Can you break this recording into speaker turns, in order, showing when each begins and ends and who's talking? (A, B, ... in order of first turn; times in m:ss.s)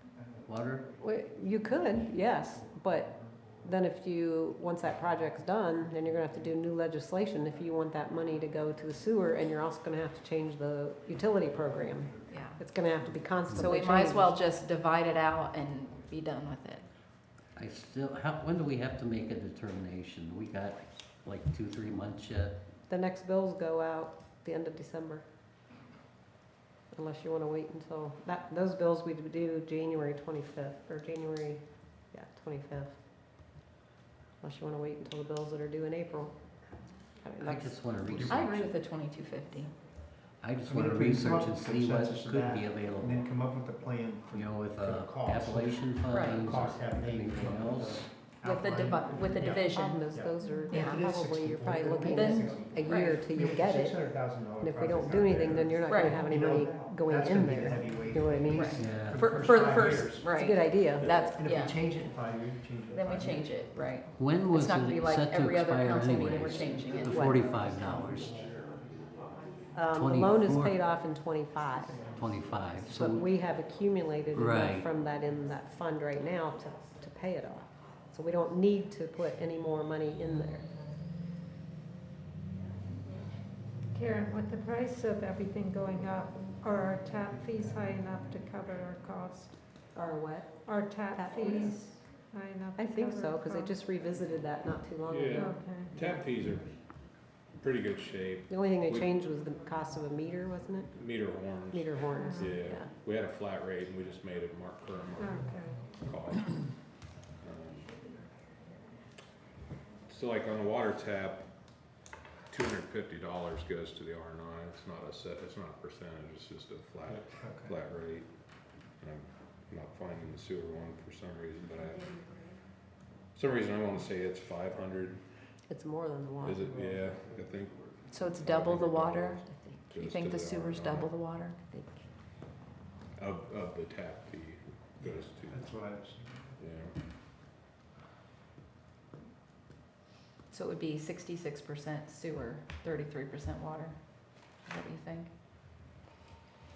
0:00.4-0:00.8 A
0:01.0-0:14.4 B
0:12.3-0:12.6 C
0:13.5-0:16.9 C
0:17.5-0:22.6 A
0:22.9-0:25.2 B
0:26.9-0:33.0 B
0:34.4-0:36.4 B
0:37.2-0:38.5 B
0:37.4-0:38.7 A
0:38.3-0:39.7 C
0:40.4-0:43.3 A
0:40.7-1:00.4 D
0:44.3-0:48.1 A
0:46.1-0:46.5 C
0:48.4-0:50.1 C
0:49.7-0:58.8 B
0:50.4-0:50.7 E
0:50.7-0:51.0 C
0:52.0-0:53.2 C
0:55.9-0:56.2 C
0:58.5-1:01.8 C
0:58.8-0:59.2 A
1:00.2-1:01.1 B
1:00.9-1:03.6 D
1:02.9-1:07.3 C
1:04.2-1:08.4 A
1:07.0-1:07.4 B
1:09.7-1:12.0 B
1:09.9-1:10.8 A
1:12.2-1:13.3 A
1:13.0-1:20.7 B
1:14.3-1:14.9 A
1:23.9-1:29.6 E
1:29.9-1:31.9 B
1:30.6-1:33.7 E
1:32.8-1:36.2 B
1:35.0-1:36.8 F
1:35.3-1:36.0 E
1:37.5-1:39.1 F
1:38.5-1:40.9 B
1:40.9-1:46.7 F
1:41.7-1:42.9 B
1:42.1-1:42.6 E
1:45.2-1:45.9 E
1:47.4-1:47.9 F
1:50.0-1:51.5 F
1:52.5-1:58.3 F
1:57.1-1:57.7 D
1:59.0-2:02.3 F
2:03.3-2:05.2 F
2:05.7-2:06.8 B
2:06.4-2:11.2 F
2:08.1-2:11.6 C
2:11.7-2:12.0 B
2:13.2-2:15.7 F
2:15.0-2:16.6 D
2:16.6-2:16.9 F
2:20.5-2:25.3 C